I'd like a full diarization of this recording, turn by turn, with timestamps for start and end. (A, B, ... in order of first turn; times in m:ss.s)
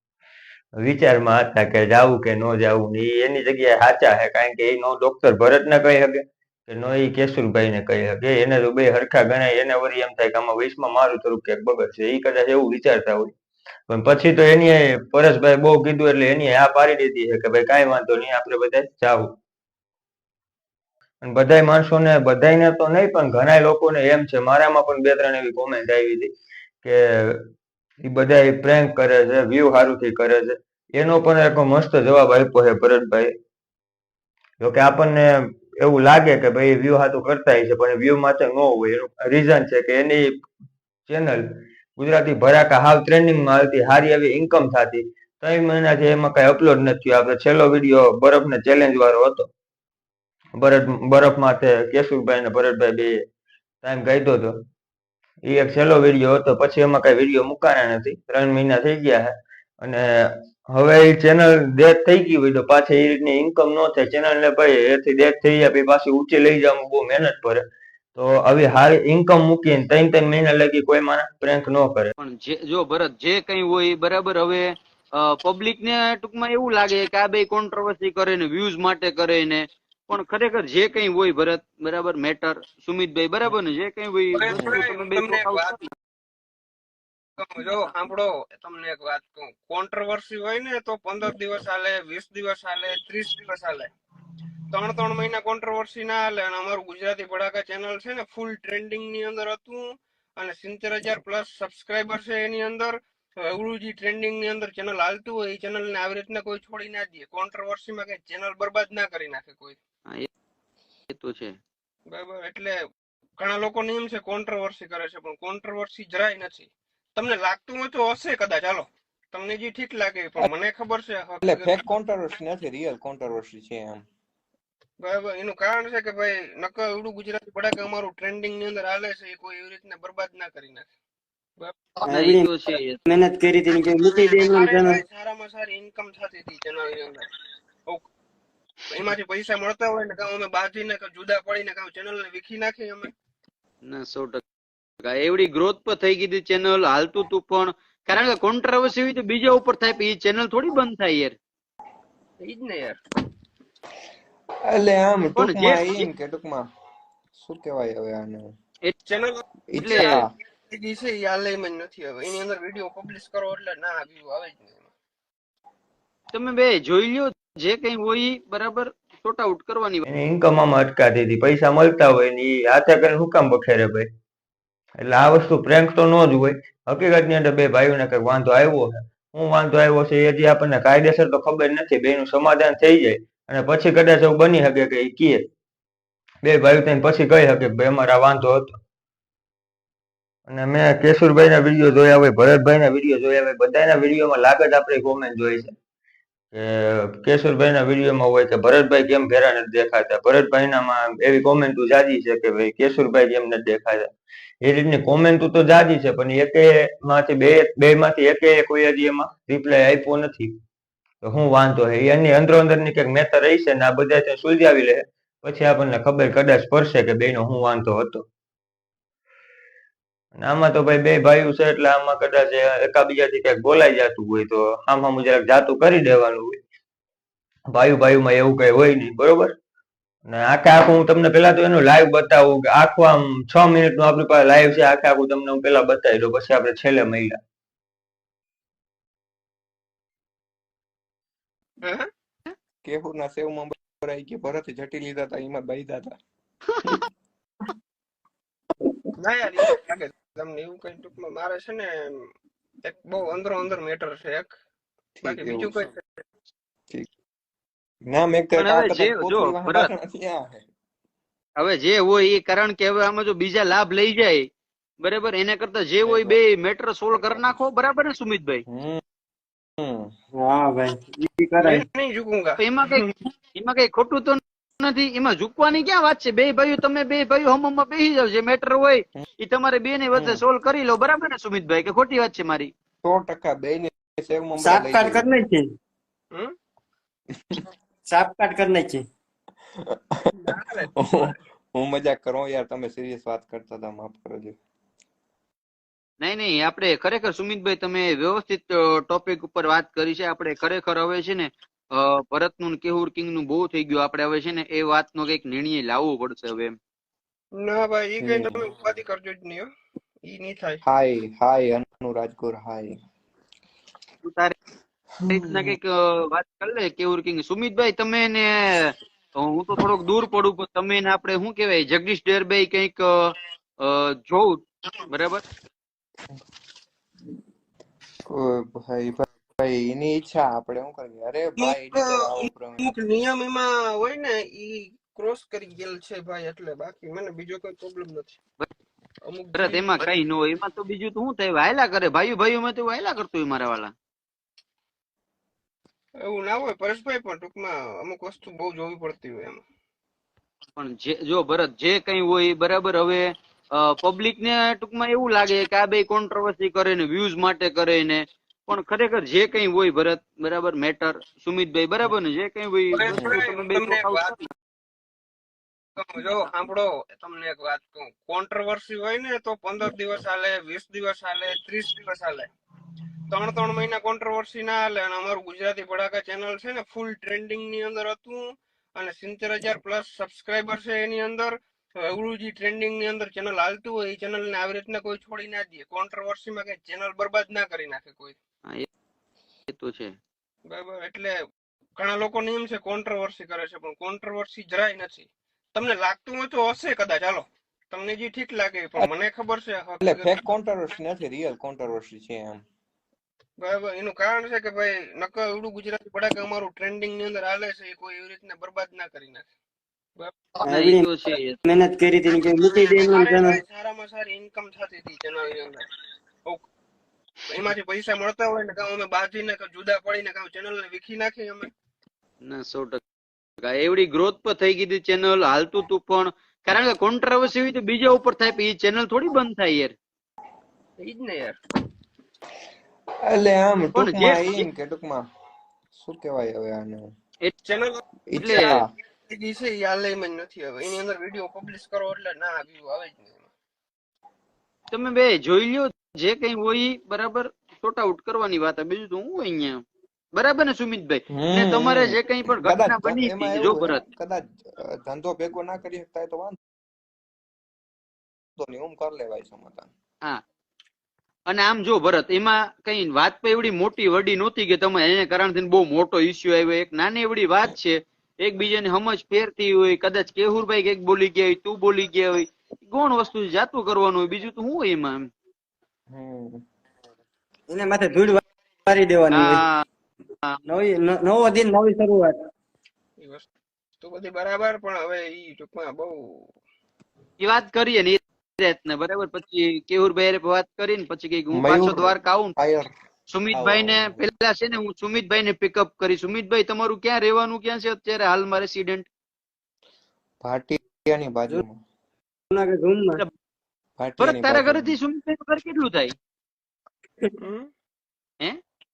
0:00.8-0:13.3 A
0:13.9-0:19.3 A
0:21.2-0:26.3 A
0:26.8-0:27.4 A
0:28.0-0:33.3 A
0:34.6-0:40.3 A
0:41.1-0:49.5 A
0:50.6-0:53.2 A
0:53.8-0:54.6 A
0:55.4-1:07.6 A
1:08.1-1:12.1 A
1:12.2-1:25.8 B
1:24.3-1:25.8 C
1:24.5-1:24.8 D
1:27.4-1:33.9 C
1:34.7-1:39.8 C
1:40.4-1:49.8 C
1:51.1-1:51.6 B
1:52.1-1:52.8 C
1:53.4-2:01.8 C
2:01.4-2:04.0 D
2:05.0-2:10.9 C
2:12.0-2:12.5 E
2:12.0-2:13.0 B
2:13.0-2:15.0 E
2:14.0-2:17.2 C
2:18.9-2:23.1 C
2:23.8-2:24.4 B
2:25.0-2:31.3 B
2:32.4-2:33.0 C
2:34.7-2:36.6 D
2:35.4-2:36.1 B
2:37.3-2:38.5 D
2:39.1-2:39.4 C
2:39.7-2:40.3 D
2:39.8-2:40.1 B
2:40.7-2:44.9 C
2:46.3-2:50.0 B
2:50.1-2:54.1 A
2:55.0-3:05.4 A
3:06.4-3:08.7 A
3:10.5-3:15.7 A
3:16.5-3:24.1 A
3:24.6-3:30.5 A
3:31.2-3:38.3 A
3:40.4-3:46.6 A
3:47.7-3:49.5 A
3:50.3-3:57.4 A
4:01.8-4:02.1 C
4:02.8-4:06.1 D
4:09.2-4:12.3 C
4:12.8-4:14.6 C
4:15.1-4:15.9 D
4:15.2-4:16.1 C
4:18.1-4:20.7 D
4:18.6-4:19.9 B
4:21.6-4:24.4 B
4:25.0-4:28.6 B
4:26.0-4:26.4 D
4:27.1-4:27.6 D
4:28.7-4:29.0 D
4:29.8-4:30.1 D
4:30.3-4:31.8 E
4:31.6-4:33.1 C
4:32.6-4:42.7 B
4:40.1-4:40.4 D
4:43.0-4:45.3 D
4:44.6-4:45.7 E
4:48.1-4:49.0 E
4:49.8-4:50.3 D
4:50.3-4:51.3 C
4:51.0-4:54.6 D
4:56.2-5:06.8 B
5:07.6-5:09.7 C
5:08.2-5:08.7 D
5:10.2-5:10.8 C
5:10.8-5:13.0 D
5:14.2-5:14.6 B
5:15.2-5:15.8 D
5:15.3-5:25.4 B
5:28.3-5:32.9 D
5:31.6-5:38.4 C
5:39.2-5:40.0 C
5:39.6-5:43.9 B
5:46.2-5:49.6 C
5:50.8-5:53.2 B
5:53.8-6:04.3 B
6:02.9-6:04.4 C
6:03.1-6:03.4 D
6:06.0-6:12.5 C
6:13.3-6:18.4 C
6:18.9-6:28.4 C
6:29.7-6:30.1 B
6:30.7-6:31.3 C
6:32.0-6:40.4 C
6:40.0-6:42.6 D
6:43.6-6:49.4 C
6:50.6-6:51.1 E
6:50.7-6:51.6 B
6:51.6-6:53.6 E
6:52.6-6:55.8 C
6:57.5-7:01.7 C
7:02.5-7:03.0 B
7:03.6-7:09.9 B
7:11.0-7:11.6 C
7:13.2-7:15.2 D
7:14.0-7:14.7 B
7:15.9-7:17.1 D
7:17.7-7:18.0 C
7:18.3-7:18.9 D
7:18.4-7:18.8 B
7:19.3-7:23.4 C
7:24.9-7:29.8 B
7:30.3-7:34.0 B
7:31.3-7:36.6 D
7:38.6-7:39.9 D
7:41.5-7:55.3 B
7:56.1-7:56.6 D
7:57.7-7:59.7 E
7:59.3-7:59.8 B
8:00.6-8:02.4 E
8:03.2-8:03.4 C
8:04.0-8:06.5 C
8:07.4-8:12.6 B
8:11.5-8:12.9 D
8:13.3-8:19.1 B
8:13.5-8:14.3 D
8:20.4-8:21.8 D
8:22.5-8:23.2 E
8:24.0-8:25.0 D
8:24.2-8:26.1 B
8:27.4-8:27.7 C